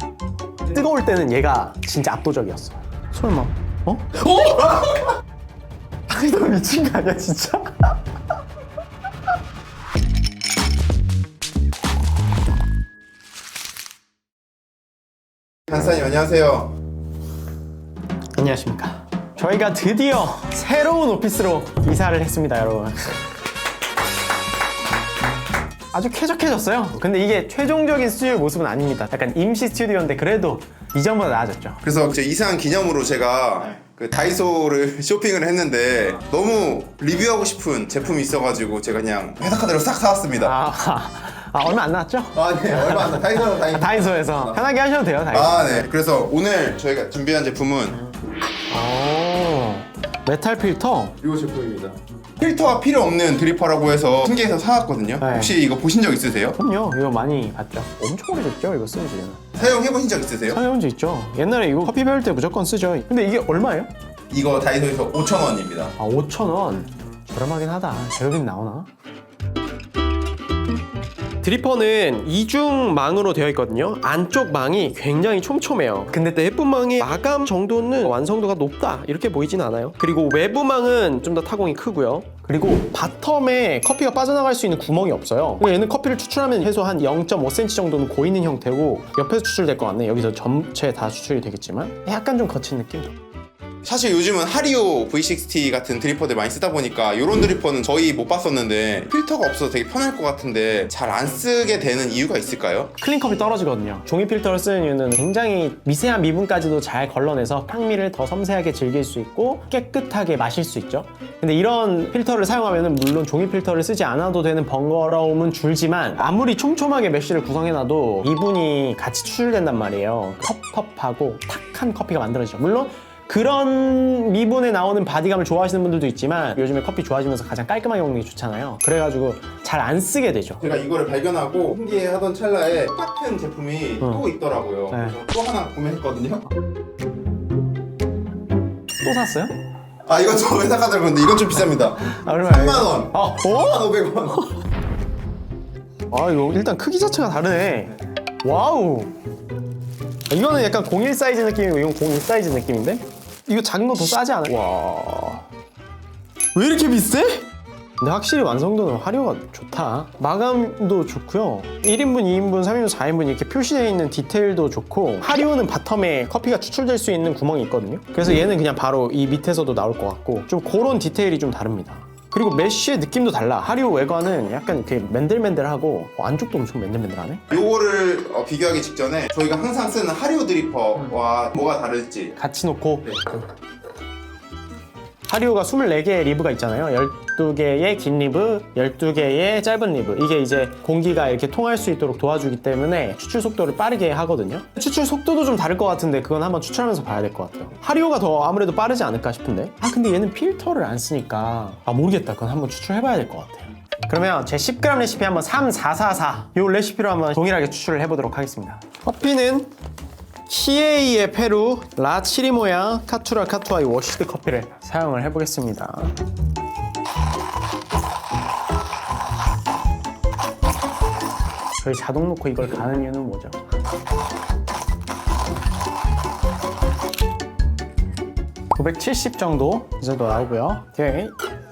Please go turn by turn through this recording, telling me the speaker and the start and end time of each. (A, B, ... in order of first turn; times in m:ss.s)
0:00.6-0:05.1 A
0:06.1-0:08.0 A
0:15.7-0:16.7 B
0:18.3-0:23.2 A
0:25.9-0:31.8 A
0:31.8-0:40.6 B
0:40.4-0:45.9 A
0:42.3-0:44.6 B
0:45.3-0:48.0 B
0:48.7-0:51.2 A
0:51.2-0:56.6 B
0:55.2-0:55.6 A
0:56.6-0:59.6 A
0:59.6-1:00.6 B
1:00.5-1:03.9 A
1:04.3-1:05.9 B
1:06.0-1:08.9 A
1:11.4-1:33.2 A
1:33.8-1:42.9 B
1:43.0-2:10.6 A
2:10.6-2:16.4 B
2:14.0-2:14.2 A
2:14.9-2:15.2 A
2:19.0-2:19.5 A
2:20.0-2:24.4 B
2:22.1-2:23.9 A
2:26.1-2:29.1 A
2:30.3-2:35.5 A
2:36.5-2:37.5 A
2:38.0-2:57.6 A
2:57.5-3:02.4 B
3:02.4-3:03.4 A
3:05.3-3:29.7 A
3:30.5-3:36.1 A
3:41.8-3:43.6 A
3:48.7-3:51.3 A